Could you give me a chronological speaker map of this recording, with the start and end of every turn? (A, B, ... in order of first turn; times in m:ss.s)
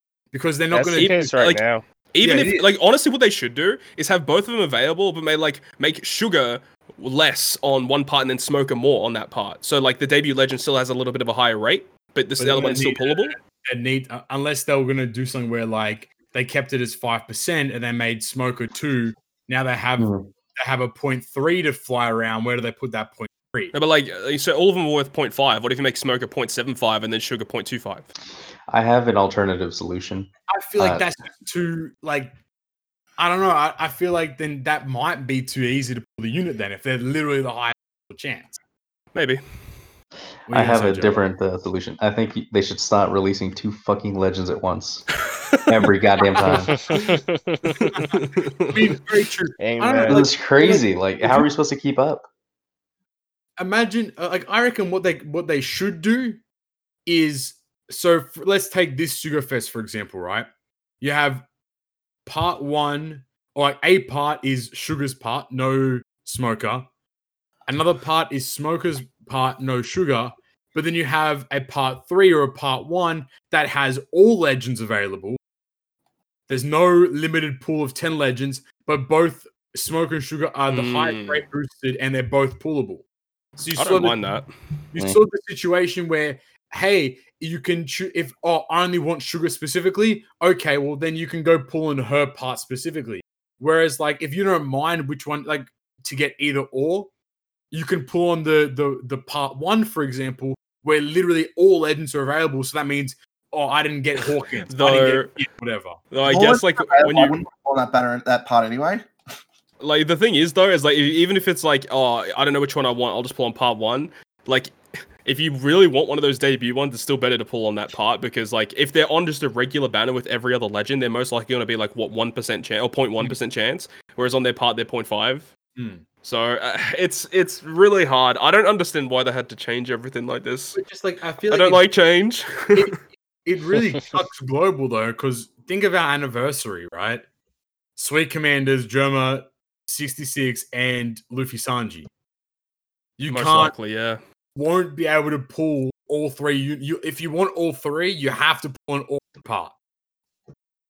0:00.3-0:01.3 A
0:00.7-0:01.8 B
0:01.0-0:01.6 C
0:02.1-0:13.4 C
0:02.2-0:02.7 A
0:12.4-0:23.8 A
0:20.0-0:20.3 D
0:23.7-0:28.1 C
0:28.7-0:31.0 D
0:30.5-0:32.3 A
0:33.2-0:38.6 A
0:39.1-0:39.4 C
0:40.5-0:41.3 A
0:40.5-0:45.1 D
0:45.3-0:45.6 C
0:45.7-0:46.8 D
0:46.5-0:47.8 B
0:47.9-0:48.2 A
0:48.1-0:48.8 C
0:48.7-0:51.5 A
0:49.6-0:50.2 B
0:50.1-0:52.3 D
0:53.6-0:56.4 A
0:57.1-1:00.5 A
1:01.0-1:01.4 A
1:02.3-1:06.9 A
1:07.7-1:15.4 A
1:16.5-1:23.0 A
1:20.7-1:21.4 C
1:23.6-1:24.2 A
1:23.8-1:24.5 C
1:24.9-1:37.1 A
1:37.7-1:46.0 A
1:44.7-1:45.4 C
1:46.1-1:47.4 C
1:46.3-1:49.1 E
1:49.8-2:05.5 C
2:05.8-2:06.0 A
2:06.2-2:10.8 C
2:10.7-2:11.9 A
2:11.5-2:12.9 C
2:12.8-2:17.2 A
2:18.0-2:22.1 A
2:23.2-2:23.8 A
2:23.3-2:24.2 C
2:24.6-2:29.7 A